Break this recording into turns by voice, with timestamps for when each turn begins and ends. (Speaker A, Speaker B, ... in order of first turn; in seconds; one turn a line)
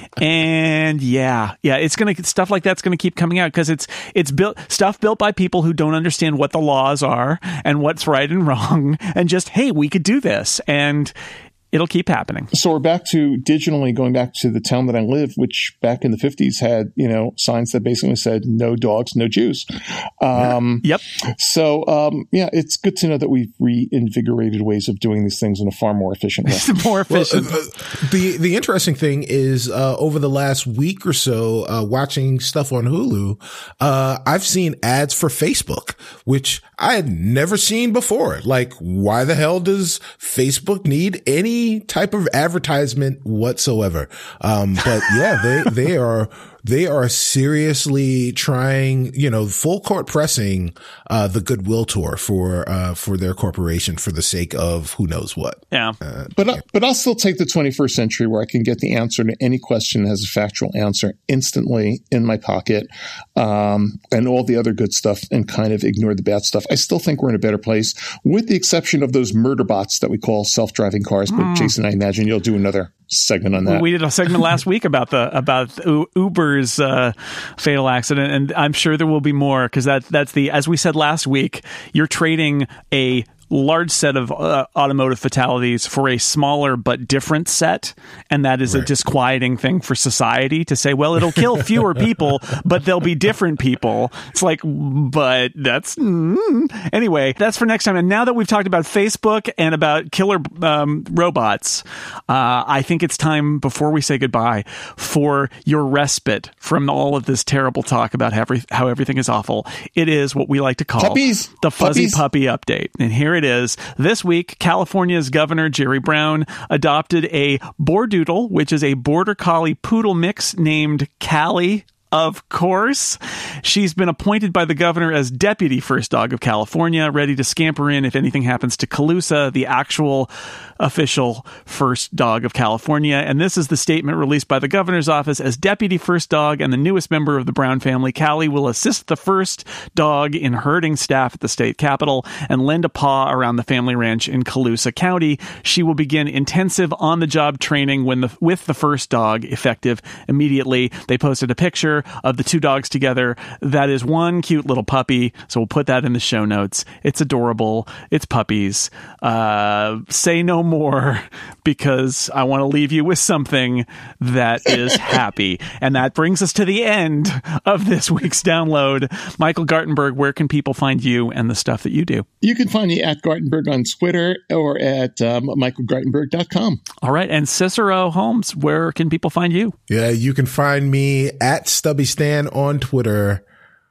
Speaker A: 0.2-11.1
Speaker A: 11.7-12.5
Speaker B: 12.5-19.6
Speaker B: 20.2-20.9
Speaker B: 21.4-26.7
Speaker A: 26.5-27.6
Speaker C: 27.1-56.3
Speaker A: 55.7-56.0
Speaker B: 56.3-73.9
Speaker A: 71.3-71.7
Speaker A: 73.6-172.2
Speaker B: 111.0-112.2
Speaker B: 172.4-176.8
Speaker A: 177.0-179.7
Speaker C: 179.9-183.4